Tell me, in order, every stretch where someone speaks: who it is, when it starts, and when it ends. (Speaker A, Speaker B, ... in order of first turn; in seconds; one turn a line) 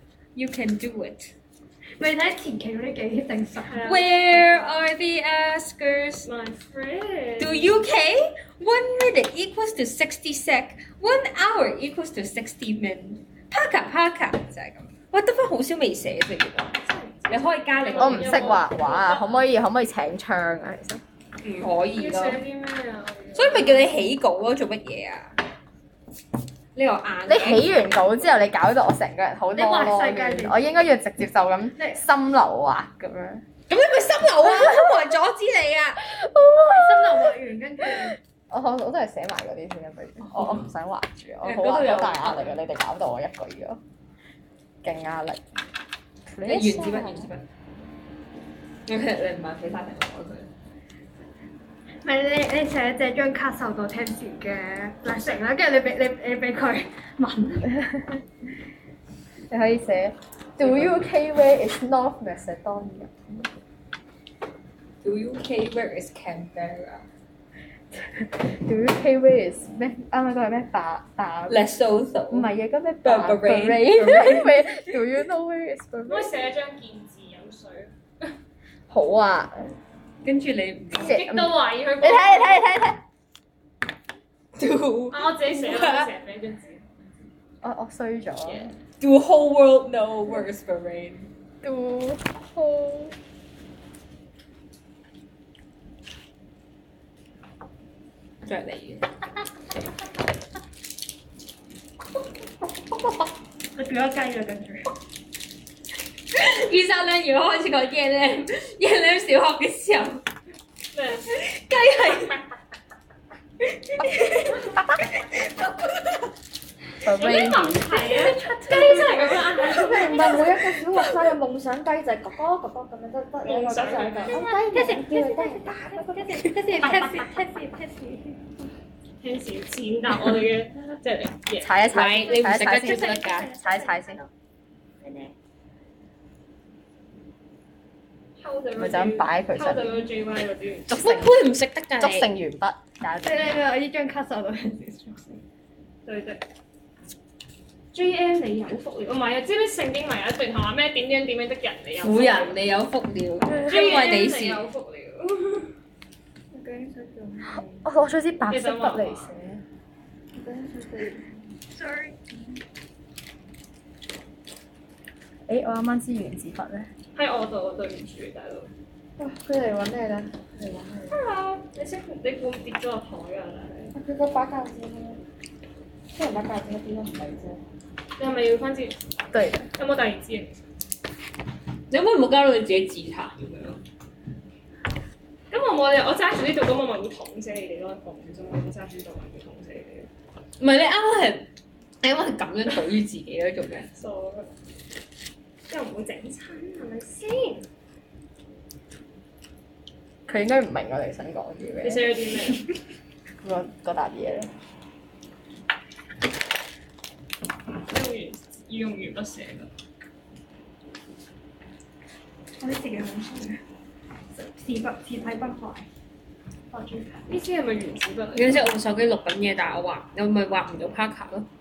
Speaker A: 0.3-1.3
Speaker B: 2.0-3.9
Speaker C: 3.6-4.8
Speaker A: 3.9-6.3
Speaker C: 6.2-7.8
Speaker A: 7.4-18.6
Speaker C: 16.9-19.5
Speaker D: 18.0-21.0
Speaker A: 21.4-22.4
Speaker C: 21.9-23.9
Speaker A: 23.4-25.4
Speaker A: 26.8-27.7
Speaker D: 27.3-33.5
Speaker B: 29.5-30.8
Speaker A: 33.7-36.0
Speaker D: 36.1-37.3
Speaker B: 36.7-38.2
Speaker D: 38.5-43.8
Speaker A: 40.3-40.6
Speaker A: 41.4-42.6
Speaker D: 44.8-45.4
Speaker D: 46.3-47.3
Speaker A: 46.5-47.5
Speaker A: 48.9-50.5
Speaker B: 52.0-57.8
Speaker C: 55.1-55.4
Speaker D: 57.7-58.2
Speaker D: 59.5-63.5
Speaker A: 60.6-61.0
Speaker A: 65.0-67.0
Speaker D: 67.9-71.7
Speaker A: 71.5-72.5
Speaker D: 72.3-76.3
Speaker A: 73.0-74.9
Speaker C: 76.1-78.3
Speaker D: 78.9-79.8
Speaker A: 80.2-81.2
Speaker C: 80.9-82.8
Speaker D: 81.0-83.0
Speaker A: 84.6-86.1
Speaker C: 85.1-86.8
Speaker D: 87.6-88.7
Speaker C: 88.5-88.7
Speaker A: 89.0-91.3
Speaker D: 91.6-93.2
Speaker A: 98.4-99.1
Speaker B: 103.8-104.9
Speaker A: 106.3-110.2
Speaker C: 110.9-111.3
Speaker A: 111.2-112.4
Speaker A: 113.6-116.3
Speaker D: 117.0-118.3
Speaker C: 117.0-120.5
Speaker B: 117.9-119.5
Speaker E: 119.7-126.5
Speaker A: 120.8-121.3
Speaker C: 123.4-124.6
Speaker B: 124.3-128.4
Speaker D: 126.8-127.2
Speaker C: 129.2-131.8
Speaker D: 131.6-134.3
Speaker A: 131.9-133.5
Speaker B: 132.8-134.1
Speaker B: 135.0-135.3
Speaker C: 138.4-141.0
Speaker D: 138.8-140.1
Speaker D: 140.9-141.5
Speaker A: 140.9-142.3
Speaker D: 142.0-143.6
Speaker B: 143.2-145.4
Speaker C: 146.1-146.4
Speaker C: 147.9-152.6
Speaker A: 152.0-154.6
Speaker C: 153.5-155.7
Speaker E: 156.5-157.8
Speaker D: 157.8-159.6
Speaker C: 158.5-159.3
Speaker E: 160.3-161.4
Speaker B: 161.7-162.2
Speaker D: 165.5-166.9
Speaker C: 167.2-168.7
Speaker E: 169.2-171.2
Speaker C: 171.1-173.9
Speaker E: 173.9-175.2
Speaker E: 176.1-177.6
Speaker C: 178.2-179.0
Speaker D: 179.3-179.7
Speaker C: 179.8-180.7
Speaker A: 181.9-183.8
Speaker C: 185.5-190.1
Speaker A: 190.6-191.5
Speaker A: 192.0-193.9
Speaker C: 193.9-194.5
Speaker C: 195.7-197.7
Speaker D: 200.3-202.7
Speaker C: 201.8-202.7
Speaker D: 203.4-204.5
Speaker C: 207.9-209.7
Speaker B: 212.6-213.6
Speaker B: 214.3-215.9
Speaker B: 216.7-217.3
Speaker C: 217.3-218.7
Speaker A: 218.3-221.5